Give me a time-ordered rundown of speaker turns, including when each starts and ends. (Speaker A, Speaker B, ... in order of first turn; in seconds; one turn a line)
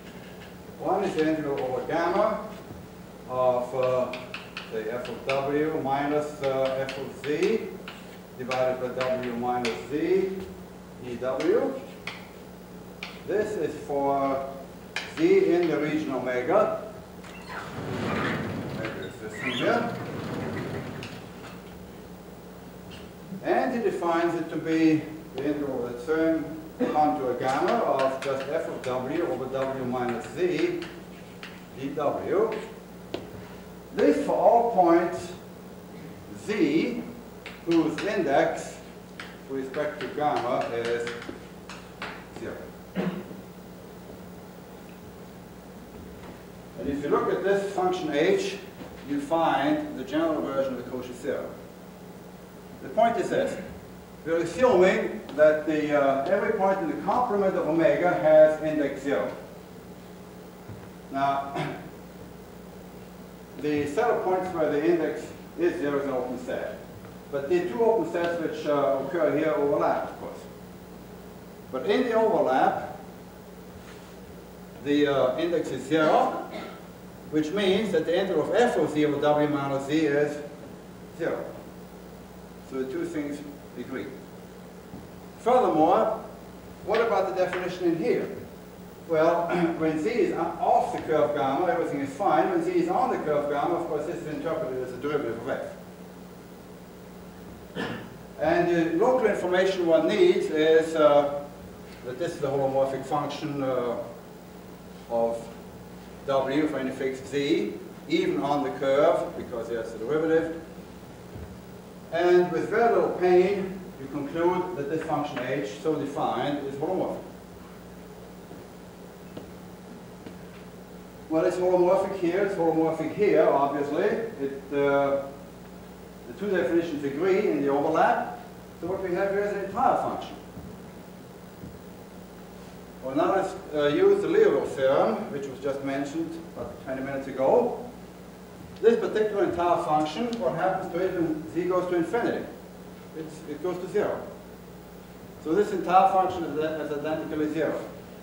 Speaker A: 0.8-2.4
Speaker A: 3.3-4.2
Speaker A: 4.7-7.7
Speaker A: 8.3-10.4
Speaker A: 11.0-11.7
Speaker A: 13.2-14.4
Speaker A: 15.1-16.8
Speaker A: 18.7-19.9
Speaker A: 23.4-30.8
Speaker A: 31.7-32.5
Speaker A: 33.9-35.3
Speaker A: 36.3-37.0
Speaker A: 37.6-38.8
Speaker A: 39.4-41.1
Speaker A: 42.3-42.6
Speaker A: 46.7-51.5
Speaker A: 52.8-53.6
Speaker A: 54.2-59.3
Speaker A: 61.1-61.8
Speaker A: 63.5-66.8
Speaker A: 67.3-70.5
Speaker A: 71.7-72.9
Speaker A: 74.8-76.4
Speaker A: 77.3-80.4
Speaker A: 81.1-81.5
Speaker A: 82.7-84.1
Speaker A: 85.4-86.2
Speaker A: 86.8-88.3
Speaker A: 89.1-95.8
Speaker A: 98.4-101.3
Speaker A: 102.0-104.0
Speaker A: 105.1-105.5
Speaker A: 106.2-110.5
Speaker A: 112.1-117.2
Speaker A: 121.3-125.2
Speaker A: 126.2-130.4
Speaker A: 133.0-137.8
Speaker A: 138.8-142.5
Speaker A: 143.1-144.2
Speaker A: 145.4-147.8